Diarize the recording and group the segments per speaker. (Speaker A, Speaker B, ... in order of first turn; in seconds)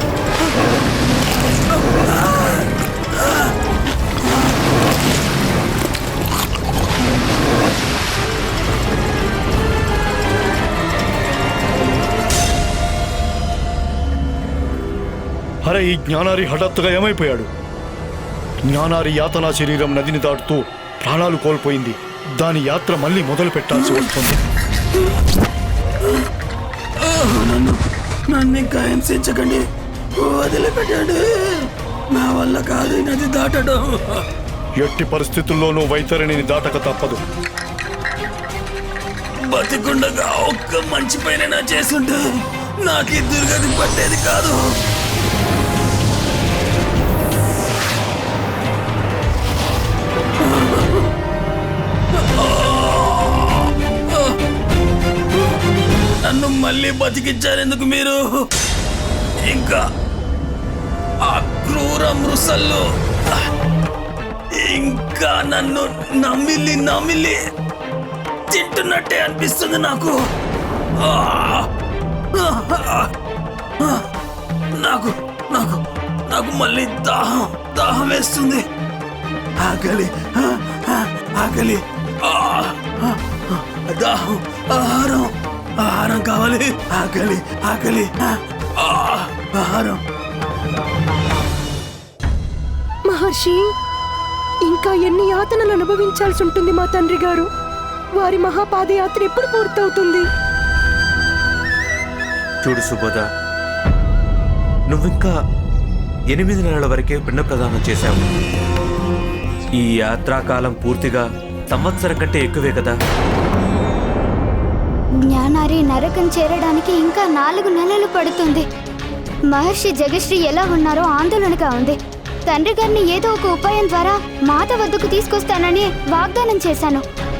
Speaker A: 15.6-17.5, 18.6-24.4, 34.8-37.2
Speaker B: 27.0-27.8, 28.3-29.6, 30.2-34.2, 39.5-42.2, 42.8-44.6, 50.4-51.0, 52.3-54.3, 56.2-58.4, 59.5-59.8, 61.2-63.4, 64.5-67.3, 68.5-70.1, 71.0-71.7, 72.3-73.1, 74.8-78.6, 79.6-90.0
Speaker C: 93.1-93.6, 94.7-97.5, 98.2-100.2
Speaker D: 102.6-103.2, 104.9-105.3, 106.3-108.2, 109.8-112.9
Speaker E: 115.3-118.6, 119.5-127.0